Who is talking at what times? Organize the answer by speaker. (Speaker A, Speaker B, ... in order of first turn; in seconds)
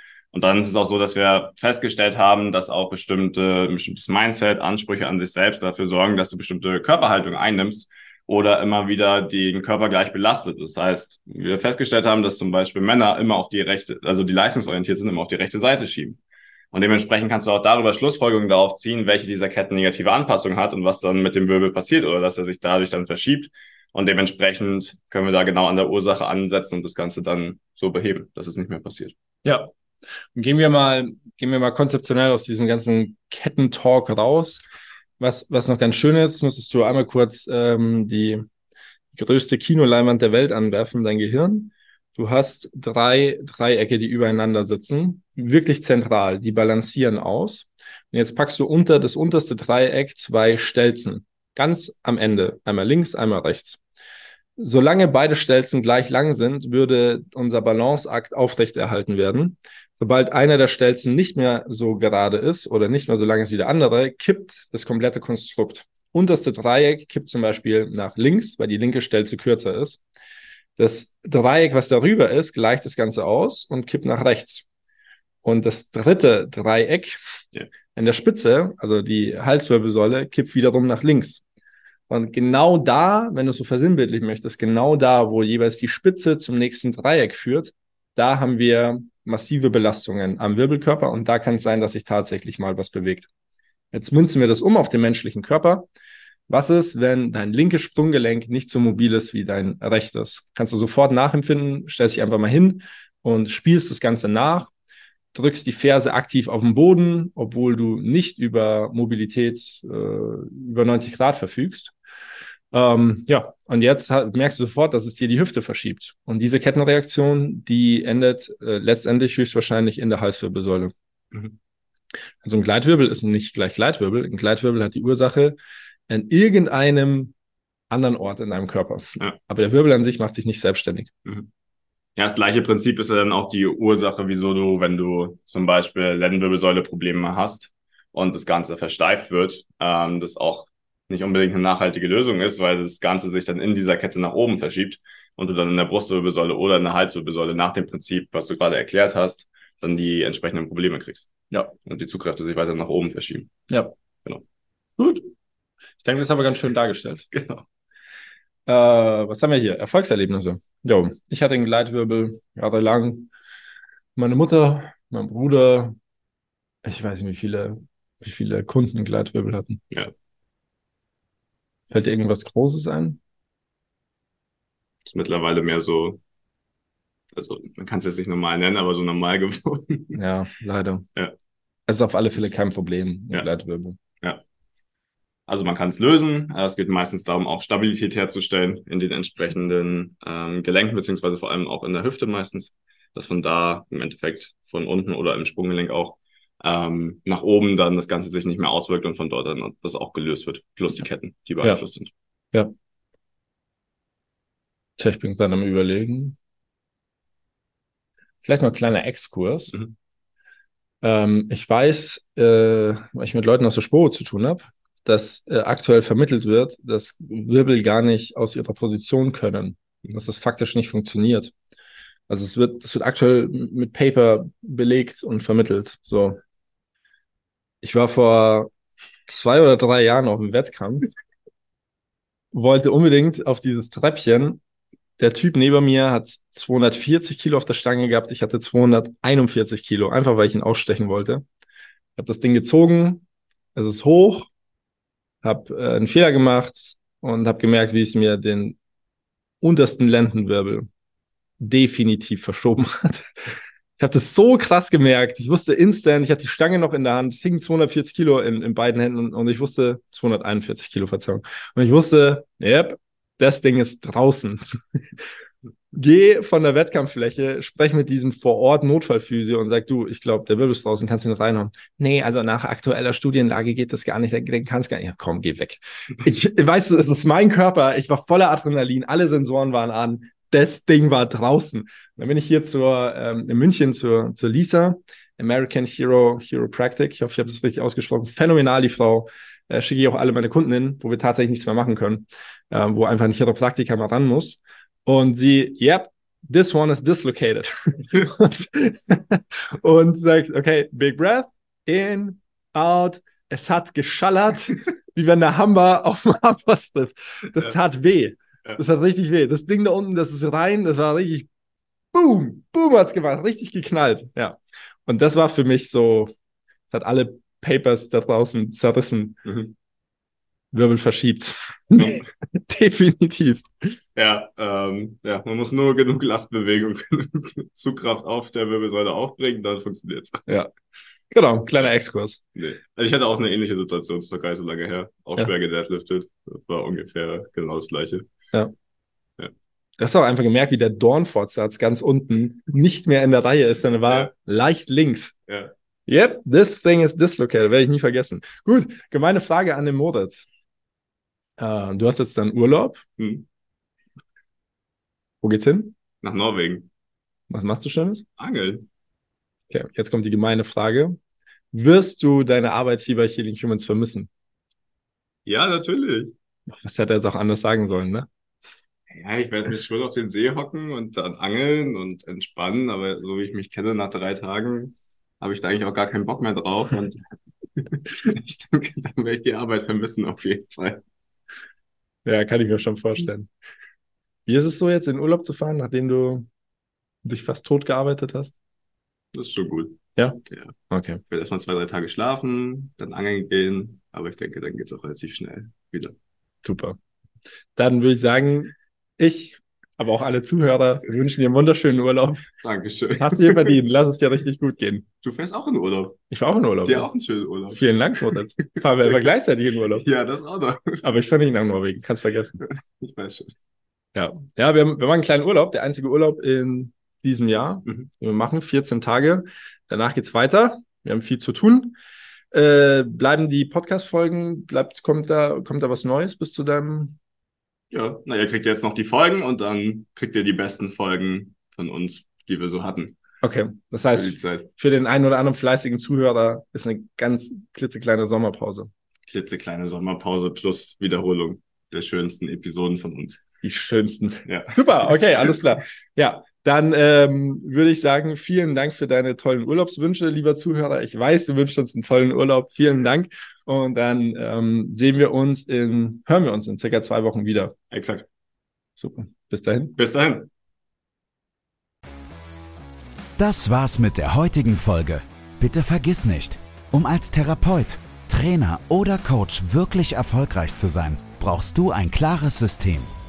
Speaker A: 0.3-16.2, 16.7-29.1, 132.2-151.3, 151.8-153.5, 157.3-157.6, 175.1-176.2, 177.3-180.2, 185.5-202.1, 319.4-319.7, 324.2-330.4, 332.6-338.3, 353.2-353.4, 356.2-356.9, 358.4-358.9, 365.4-366.3, 369.1-377.2, 377.8-381.0, 389.3-390.7, 391.3-396.1, 402.6-403.8, 405.2-406.2, 406.8-409.2, 410.0-411.0, 412.6-413.5, 427.9-433.1, 434.1-434.7, 439.3-443.4, 444.4-445.6, 457.9-458.2, 459.9-460.5
Speaker B: 29.4-29.7, 30.3-34.6, 35.2-38.4, 39.1-53.8, 54.6-70.0, 70.8-74.6, 75.4-77.2, 77.9-81.4, 82.1-93.3, 93.9-95.9, 96.5-104.7, 105.3-111.9, 112.7-120.9, 122.4-125.6, 126.1-127.3, 127.9-131.1, 155.0-155.3, 156.0-157.3, 158.7-163.3, 164.2-165.9, 166.8-169.8, 171.9-173.2, 180.1-181.1, 181.9-184.0, 205.0-206.4, 208.4-209.7, 211.0-221.5, 222.3-226.4, 227.8-228.7, 229.3-231.1, 232.5-234.6, 235.2-241.4, 242.2-244.5, 245.4-248.8, 249.6-250.8, 251.6-253.3, 254.0-264.8, 265.9-311.5, 312.1-316.3, 316.9-319.4, 320.7-323.7, 331.3-332.4, 340.0-345.3, 346.1-350.5, 351.6-353.0, 355.4-355.9, 357.5-358.2, 359.7-361.2, 361.7-364.3, 366.7-368.3, 382.2-383.5, 384.4-386.4, 387.2-388.6, 390.9-391.2, 396.6-396.9, 397.8-402.5, 403.2-405.1, 406.3-407.1, 407.7-410.1, 411.0-412.6, 414.1-422.0, 422.5-427.2, 433.4-438.9, 443.6-457.7, 459.0-459.9
Speaker C: 463.4-473.1